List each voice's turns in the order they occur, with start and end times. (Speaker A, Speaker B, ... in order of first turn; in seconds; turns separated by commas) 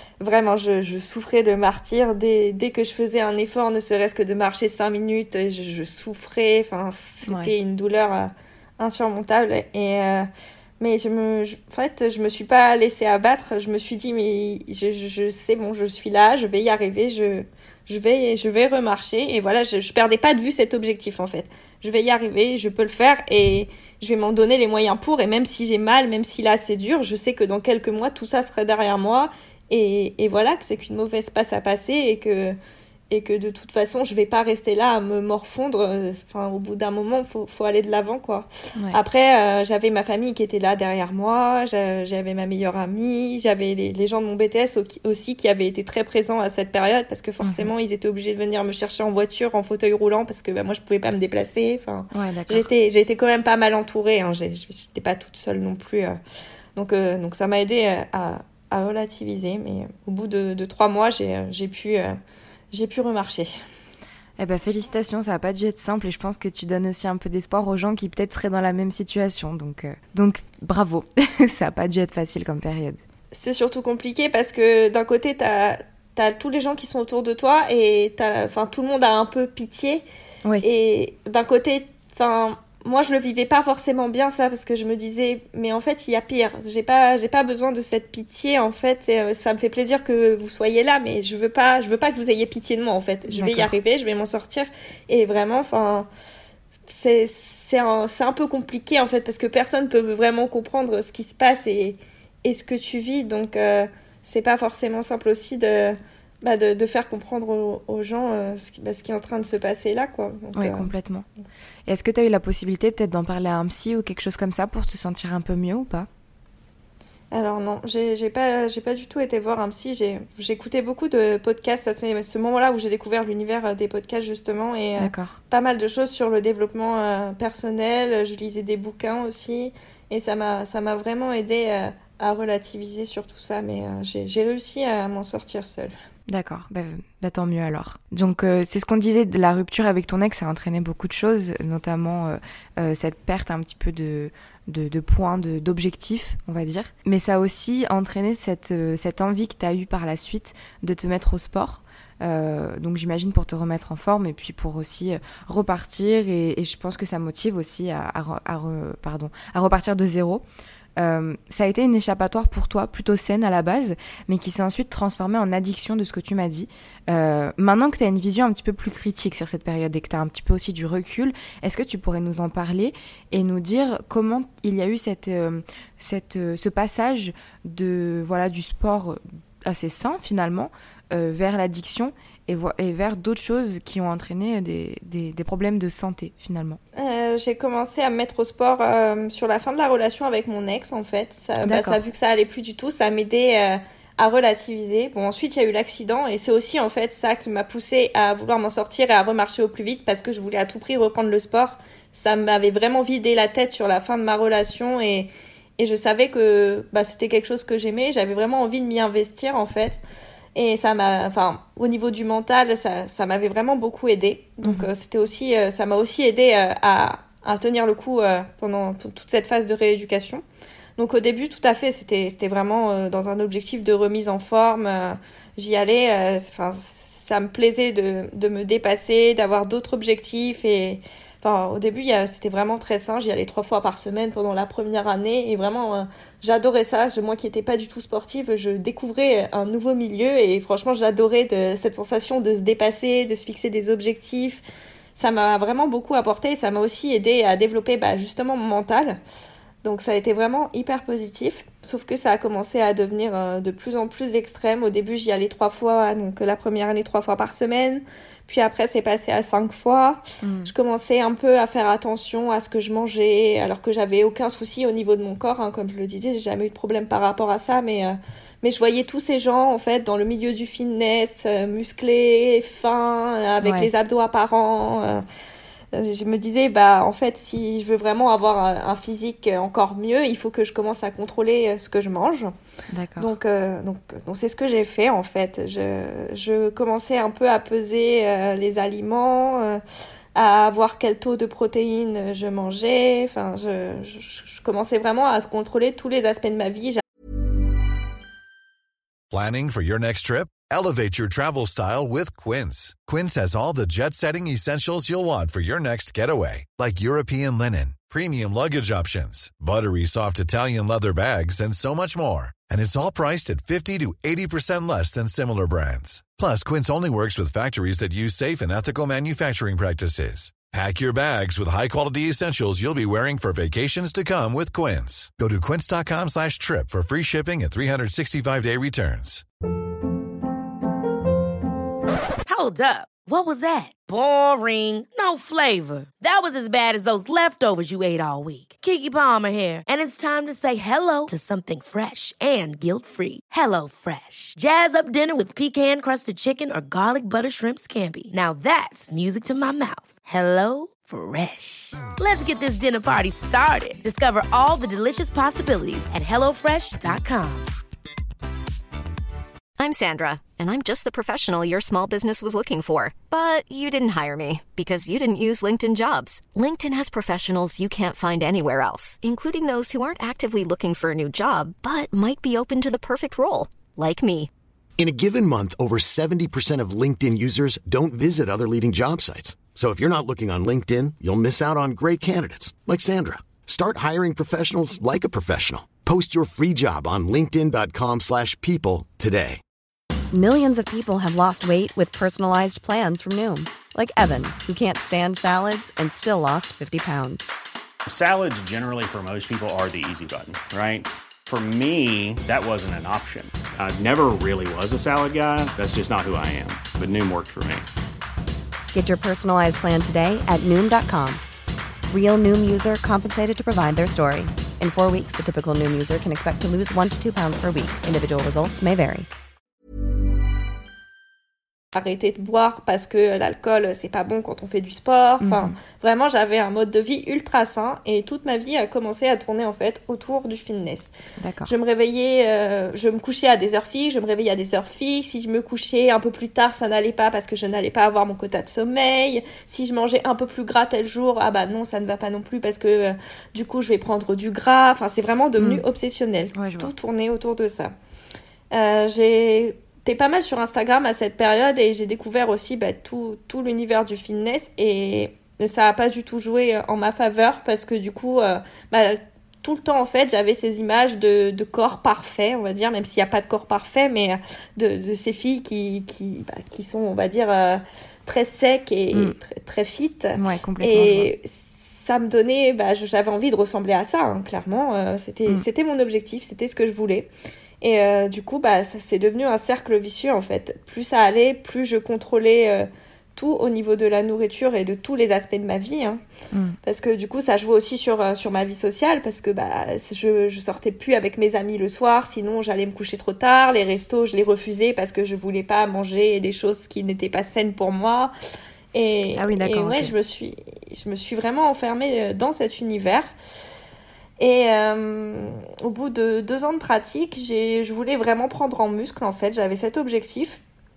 Speaker A: 0.2-10.3, Speaker B: 7.2-7.5, Speaker A: 10.8-32.5, Speaker A: 33.1-56.1, Speaker B: 47.4-47.7, Speaker B: 52.1-52.7, Speaker A: 56.7-62.2, Speaker A: 62.7-63.5, Speaker B: 64.4-73.0, Speaker A: 73.3-80.0, Speaker A: 80.6-96.1, Speaker B: 93.3-93.7, Speaker A: 96.9-110.9, Speaker B: 110.5-111.2, Speaker B: 111.8-116.1, Speaker A: 117.3-135.9, Speaker B: 125.0-125.4, Speaker B: 136.3-160.4, Speaker B: 161.0-186.8, Speaker A: 186.9-210.0, Speaker B: 191.6-192.0, Speaker A: 210.5-220.4, Speaker B: 214.6-214.9, Speaker A: 221.0-244.6, Speaker A: 245.2-249.2, Speaker A: 249.8-275.2, Speaker B: 260.4-260.7, Speaker B: 273.6-273.9, Speaker A: 275.9-282.5, Speaker B: 282.9-283.3, Speaker A: 283.2-289.8, Speaker A: 290.3-297.0, Speaker C: 299.3-329.4, Speaker D: 332.4-357.7, Speaker E: 359.8-374.5, Speaker F: 375.0-389.6, Speaker G: 390.3-397.4, Speaker H: 398.1-407.9, Speaker G: 408.9-411.4, Speaker G: 412.1-419.3, Speaker A: 421.9-431.1, Speaker B: 425.4-425.8, Speaker B: 431.4-431.7, Speaker A: 431.6-447.9, Speaker B: 445.6-445.8, Speaker B: 446.5-446.9, Speaker A: 448.7-477.3, Speaker B: 470.4-471.3, Speaker A: 477.8-486.2, Speaker A: 486.8-498.3, Speaker A: 498.9-503.3, Speaker B: 499.3-500.1, Speaker A: 504.4-510.6